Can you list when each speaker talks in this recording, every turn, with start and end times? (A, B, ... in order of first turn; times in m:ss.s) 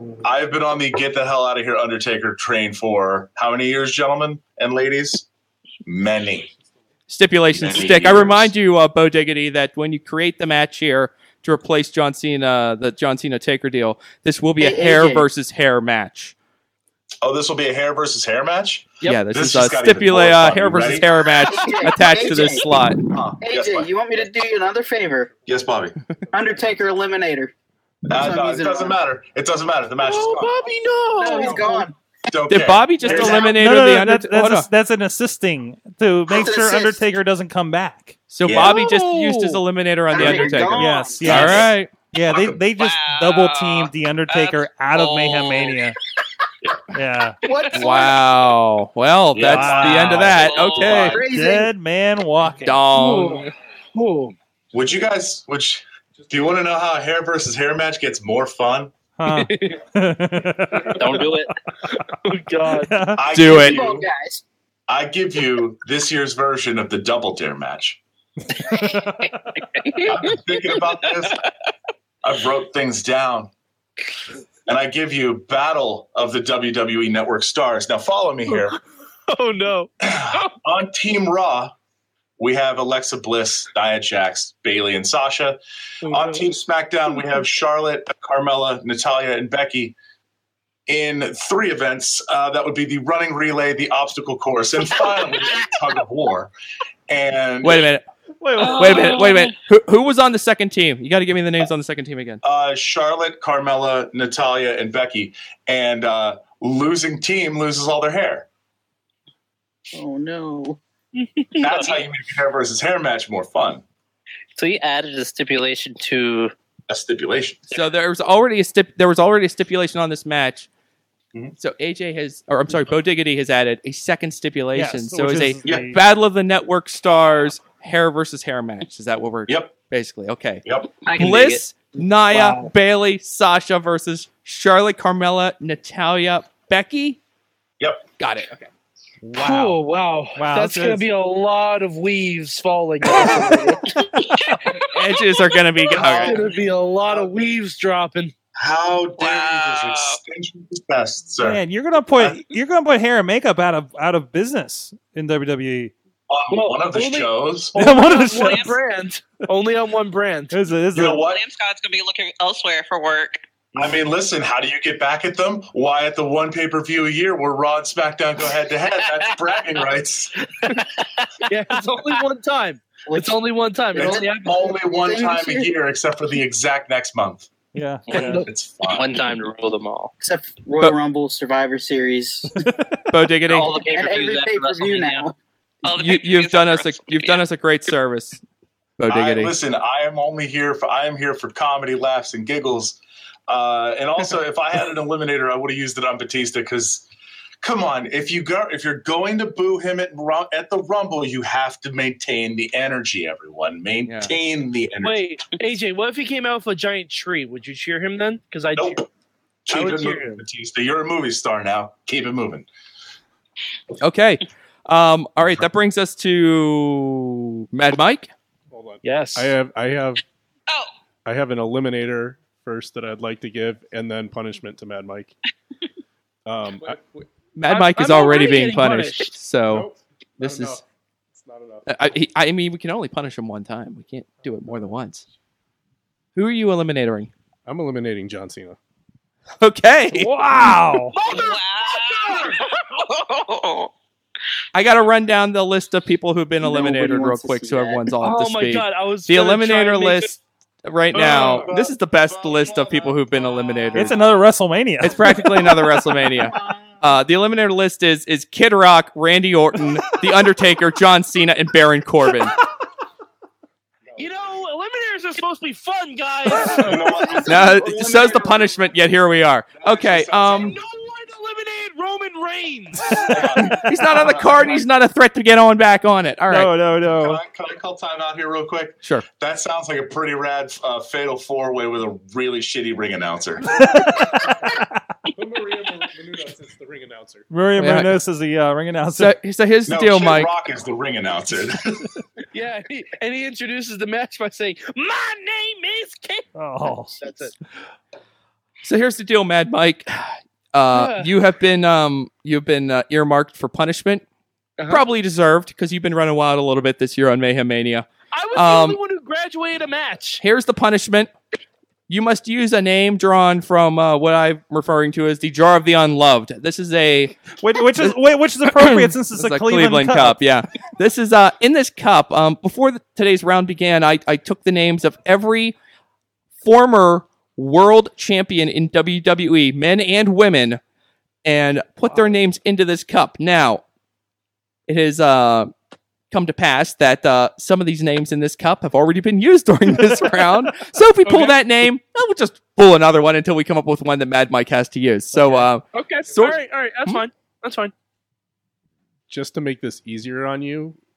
0:00.2-0:05.3 A
0:05.8-0:06.5 A
0:07.1-0:16.3 B
0:07.6-0:08.5 A
0:14.6-0:15.3 C
0:17.2-0:21.1 A
0:19.0-0:23.0 B
0:21.4-0:22.8 C
0:23.1-0:23.9 A
0:23.4-0:25.4 C
0:25.4-0:26.8 D
0:25.5-0:26.0 A
0:26.3-0:27.5 C
0:28.0-0:30.6 A
0:28.1-0:29.0 C
0:30.0-0:31.8 E
0:31.2-0:31.9 C
0:31.4-0:31.6 A
0:32.3-0:33.4 A
0:32.5-0:34.7 B
0:33.0-0:38.2 F
0:33.1-0:33.5 C
0:36.3-0:37.0 C
0:38.3-0:41.9 B
0:38.4-0:38.8 A
0:38.5-0:39.6 E
0:40.1-0:41.6 C
0:40.7-0:46.0 F
0:41.3-0:41.6 A
0:42.3-0:42.6 A
0:42.8-0:45.8 G
0:46.9-0:47.4 F
0:47.4-0:48.2 C
0:47.5-0:47.7 G
0:47.7-0:51.2 B
0:49.3-0:51.2 A
0:49.4-0:50.3 F
0:50.4-0:50.8 G
0:50.9-0:52.8 F
0:51.0-0:51.7 C
0:52.6-0:53.4 B
0:52.9-0:54.3 E
0:54.7-0:58.9 A
0:59.2-1:01.0 F
0:59.3-0:59.8 E
1:00.9-1:01.5 H
1:02.0-1:03.1 E
1:02.8-1:03.2 F
1:03.2-1:04.1 A
1:03.3-1:03.8 B
1:03.4-1:04.4 C
1:04.9-1:08.0 A
1:08.5-1:09.6 F
1:10.0-1:11.4 A
1:12.2-1:13.5 A
1:14.7-1:18.8 A
1:19.3-1:20.5 E
1:20.0-1:21.7 A
1:22.4-1:30.0 A
1:26.0-1:26.5 E
1:30.9-1:36.5 A
1:37.1-1:37.9 A
1:37.6-1:38.0 B
1:38.4-1:39.2 F
1:38.6-1:39.5 G
1:38.7-1:42.4 B
1:42.4-1:48.5 A
1:49.9-1:50.8 C
1:51.2-1:52.0 E
1:51.6-1:53.8 A
1:54.6-1:56.5 H
1:56.9-1:57.7 A
1:57.7-2:00.7 B
2:01.6-2:17.2 B
2:04.7-2:06.0 F
2:09.5-2:09.8 A
2:10.6-2:11.0 A
2:11.1-2:11.6 H
2:12.3-2:12.7 E
2:17.8-2:18.1 A
2:18.2-2:18.7 B
2:19.2-2:19.8 F
2:19.4-2:23.9 E
2:20.3-2:21.0 F
2:23.1-2:23.5 F
2:24.2-2:24.6 F
2:24.9-2:26.4 B
2:25.9-2:28.3 E
2:25.9-2:26.5 A
2:28.6-2:31.6 A
2:29.2-2:30.2 G
2:31.4-2:35.9 F
2:32.2-2:32.4 A
2:36.3-2:37.8 A
2:36.5-2:40.5 E
2:37.7-2:38.7 F
2:38.4-2:38.8 G
2:40.5-2:41.2 F
2:40.9-2:41.4 A
2:41.2-2:43.4 G
2:43.7-2:50.8 A
2:50.6-2:50.9 E
2:51.4-2:54.7 E
2:53.0-2:53.4 C
2:53.9-2:57.5 A
2:54.0-2:55.7 C
2:57.7-2:58.4 F
2:58.1-3:00.1 H
2:58.2-2:58.5 E
2:58.2-2:59.1 A
3:00.2-3:02.7 C
3:03.1-3:03.7 B
3:03.4-3:05.3 H
3:03.8-3:05.4 C
3:05.8-3:07.4 G
3:05.9-3:08.4 B
3:09.0-3:09.5 B
3:09.1-3:17.1 A
3:17.6-3:25.3 A
3:24.0-3:24.3 B
3:25.0-3:29.0 E
3:28.7-3:29.0 A
3:29.6-3:32.6 A
3:29.7-3:30.4 E
3:34.0-3:38.3 B
3:38.7-3:40.2 D
3:39.0-3:39.5 E
3:41.2-3:45.4 D
3:46.4-3:47.3 D
3:47.5-3:50.8 B
3:47.7-3:49.4 E
3:49.7-3:50.8 D
3:51.3-3:52.0 D
3:51.8-3:55.2 B
3:54.5-3:54.9 D
3:56.3-3:57.3 B
3:57.6-3:58.8 D
3:59.6-4:00.8 B
4:00.1-4:01.2 F
4:01.2-4:03.9 G
4:01.2-4:02.6 E
4:04.7-4:14.3 B
4:06.6-4:08.1 C
4:08.2-4:10.3 E
4:11.1-4:11.7 E
4:11.2-4:13.1 A
4:13.9-4:15.7 F
4:15.0-4:22.5 B
4:16.3-4:17.0 C
4:24.2-4:27.3 E
4:26.7-4:28.1 A
4:27.2-4:28.7 C
4:27.4-4:30.7 B
4:29.7-4:30.8 A
4:30.4-4:33.4 E
4:33.1-4:33.9 F
4:33.3-4:34.8 A
4:33.7-4:36.7 B
4:36.5-4:37.4 F
4:37.1-4:44.1 A
4:43.7-4:44.8 F
4:45.4-4:47.5 D
4:47.5-4:49.4 F
4:47.8-4:48.2 B
4:49.2-4:50.5 B
4:49.8-4:52.1 A
4:52.5-4:57.5 E
4:56.5-4:57.1 F
4:58.8-5:04.2 B
5:00.9-5:01.3 E
5:04.8-5:05.0 E
5:04.9-5:09.0 B
5:08.3-5:10.4 E
5:10.4-5:11.3 B
5:12.1-5:25.8 B
5:17.6-5:20.4 F
5:26.6-5:30.8 B
5:31.4-5:33.8 B
5:34.9-5:35.7 B
5:36.3-5:47.2 B
5:40.0-5:40.7 F
5:41.2-5:41.6 E
5:45.9-5:47.9 E
5:49.3-5:51.0 D